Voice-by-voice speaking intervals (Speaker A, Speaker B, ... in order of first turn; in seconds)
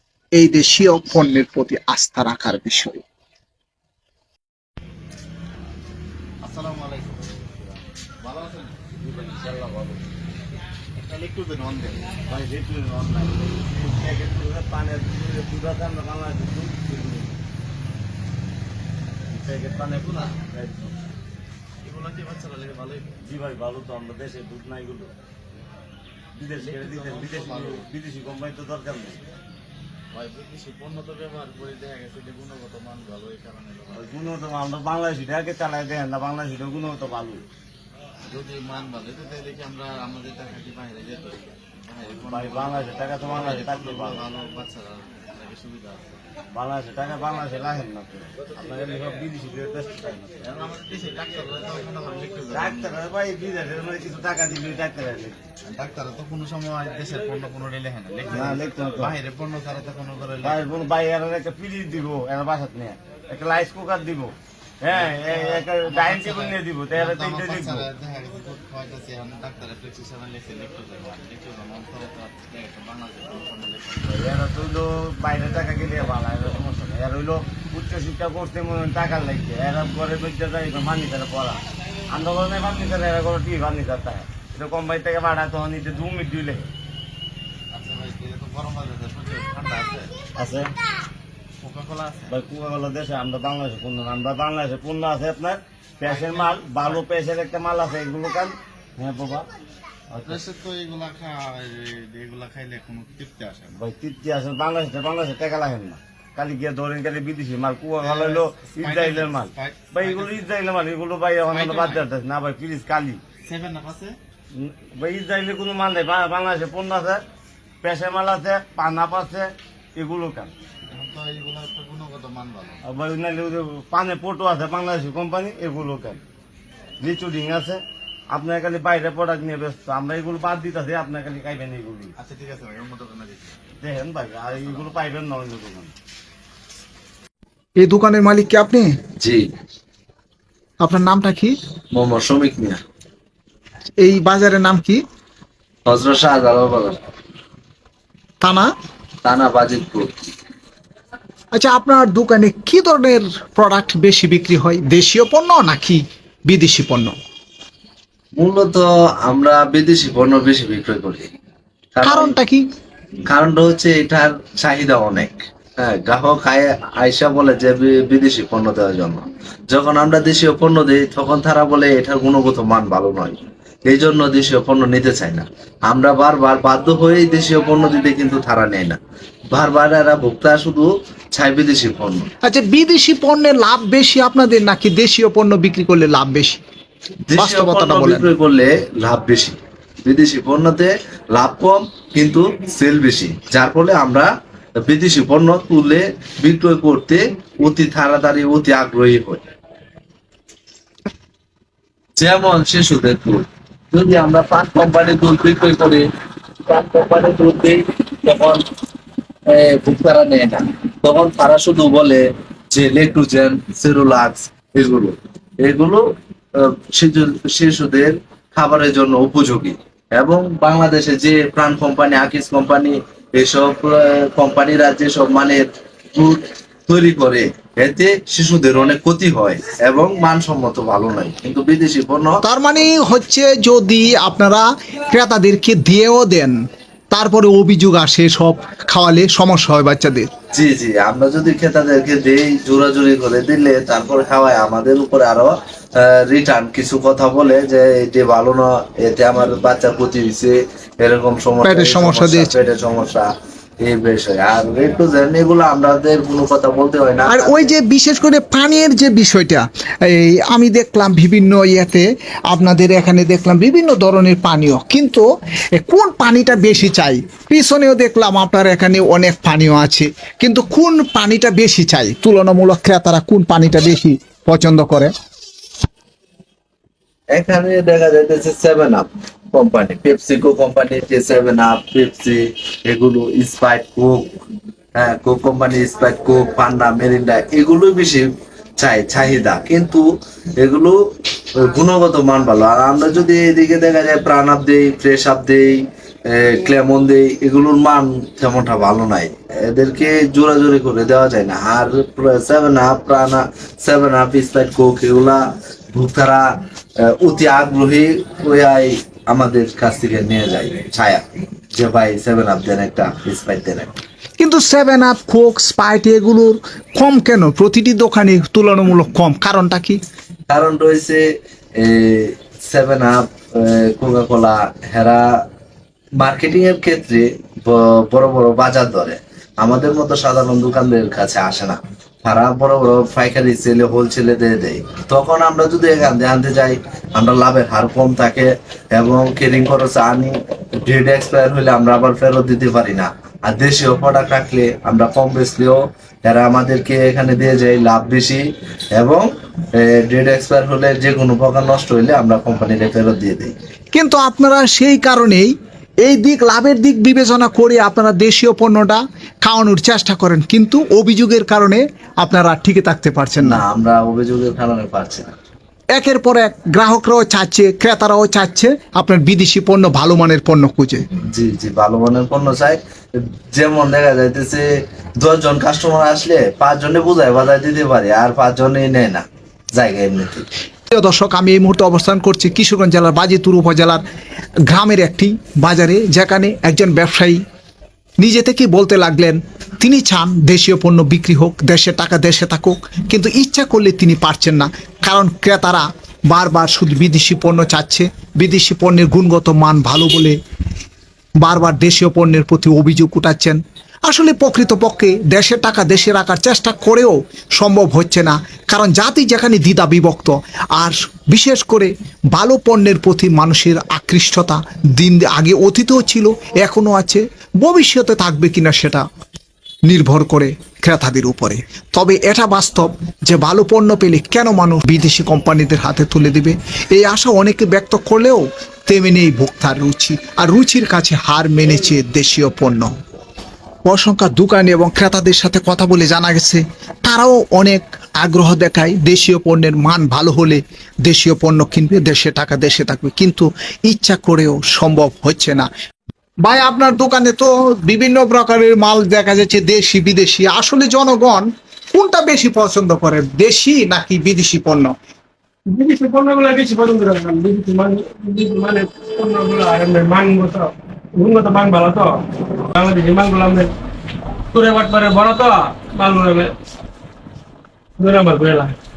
Speaker A: 0.4-3.0, 137.8-138.9, 140.8-141.6, 144.0-145.0, 148.4-148.7, 151.5-157.2, 162.0-162.6, 182.4-186.6, 187.3-188.3, 232.4-236.6, 237.1-240.3, 251.6-252.5, 257.3-265.2, 265.8-275.1, 314.4-320.0, 353.9-355.5, 356.1-363.6, 365.9-371.0, 380.9-384.0, 384.7-387.4, 388.2-400.4, 401.4-419.1, 419.9-432.9, 433.9-445.7, 446.4-454.9
Speaker B: 6.4-8.8, 10.9-12.1, 21.8-23.1, 26.6-27.8, 30.1-34.0, 38.2-46.2, 50.4-53.0, 55.6-60.7, 65.0-74.1, 87.7-90.1, 91.6-92.3, 100.2-103.8, 108.0-110.4, 111.5-112.0, 113.4-114.2, 120.8-122.8, 132.2-133.6
Speaker C: 9.0-10.0, 12.3-17.4, 19.3-20.9, 23.2-25.1, 26.3-29.2, 33.9-37.4, 42.1-44.3, 46.5-50.4, 52.5-55.4, 58.3-59.1, 60.4-67.9, 74.1-86.7, 90.3-90.7, 92.3-99.5, 100.1-100.4, 103.8-113.2, 114.5-117.2, 117.8-120.5, 122.9-126.2, 127.0-132.1, 133.8-135.9
Speaker D: 141.9-142.8, 145.8-147.0, 149.2-150.1, 158.4-161.3, 161.9-162.3, 163.3-179.0, 179.5-182.3, 187.3-194.3, 194.8-199.4, 202.2-206.0, 206.7-208.6, 209.5-216.0, 216.6-232.3, 240.5-253.3, 253.8-257.7, 277.3-284.3, 285.0-288.3, 288.8-290.0, 290.6-291.0, 291.6-306.4, 307.1-311.2, 311.8-313.9, 320.5-321.2, 321.8-325.4, 326.2-348.4, 348.9-353.5, 363.4-365.3, 371.3-372.8, 373.5-374.7, 375.2-380.4
Speaker E: 455.7-462.2, 462.7-463.7, 464.5-466.5, 468.0-468.8